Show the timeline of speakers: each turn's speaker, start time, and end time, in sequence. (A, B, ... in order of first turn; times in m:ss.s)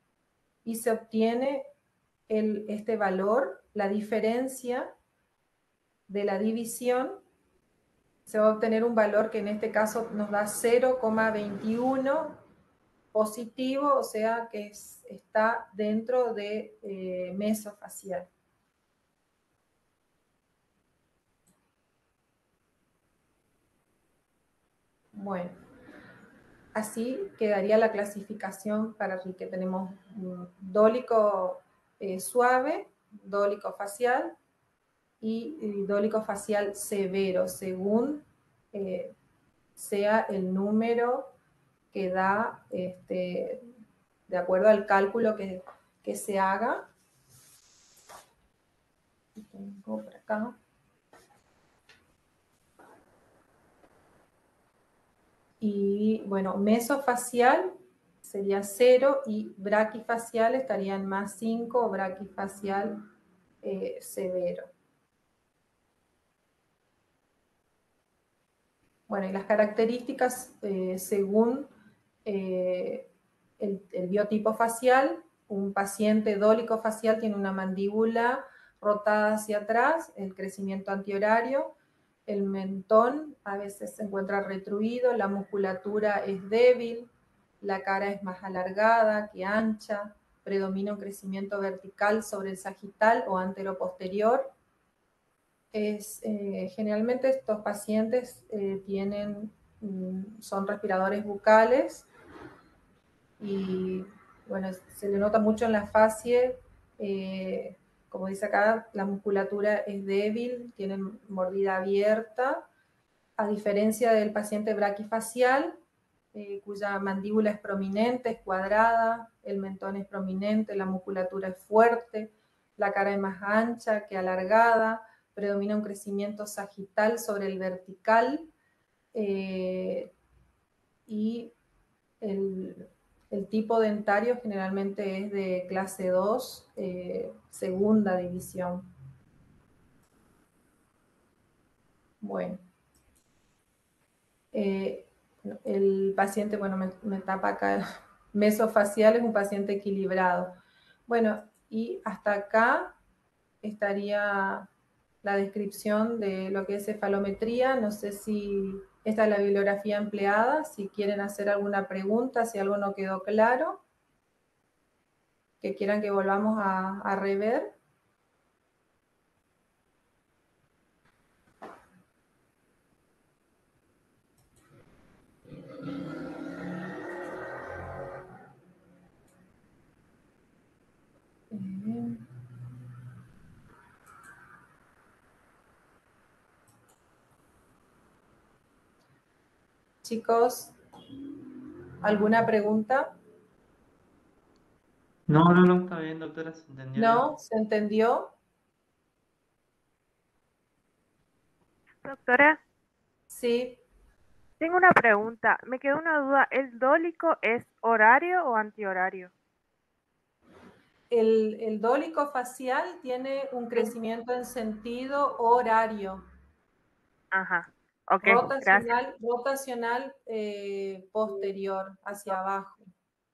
0:00.6-0:01.7 A
0:02.3-0:04.9 A
0:06.1-0:07.2 A
0:08.3-0:12.4 A
0:13.1-0:18.3 A
0:25.2-0:25.6 A
0:26.8-0:34.4 A
0:35.2-0:39.1 A
0:39.8-0:41.3 A
0:41.9-0:43.6 A
0:44.3-0:46.9 A
0:49.4-0:50.6 A
0:55.6-1:03.0 A
1:03.6-1:04.7 A
1:09.1-1:11.7 A
1:12.2-1:21.7 A
1:22.3-1:34.5 A
1:35.7-1:42.1 A
1:43.4-1:52.7 A
1:53.4-1:55.8 A
1:56.3-2:08.5 A
2:09.1-2:10.1 A
2:11.1-2:11.5 A
2:12.2-2:18.9 A
2:22.2-2:22.6 A
2:24.5-2:30.6 A
2:31.1-2:33.0 A
2:33.6-2:34.7 A
2:35.2-2:43.8 A
2:45.6-2:47.7 A
3:01.5-3:02.3 A
3:10.0-3:10.8 A
3:12.0-3:13.2 A
3:15.3-3:17.3 B
3:17.0-3:18.3 A
3:22.0-3:22.6 C
3:23.3-3:23.8 A
3:24.6-3:29.3 C
3:31.1-3:36.2 A
3:37.3-3:38.9 C
3:38.2-3:42.9 A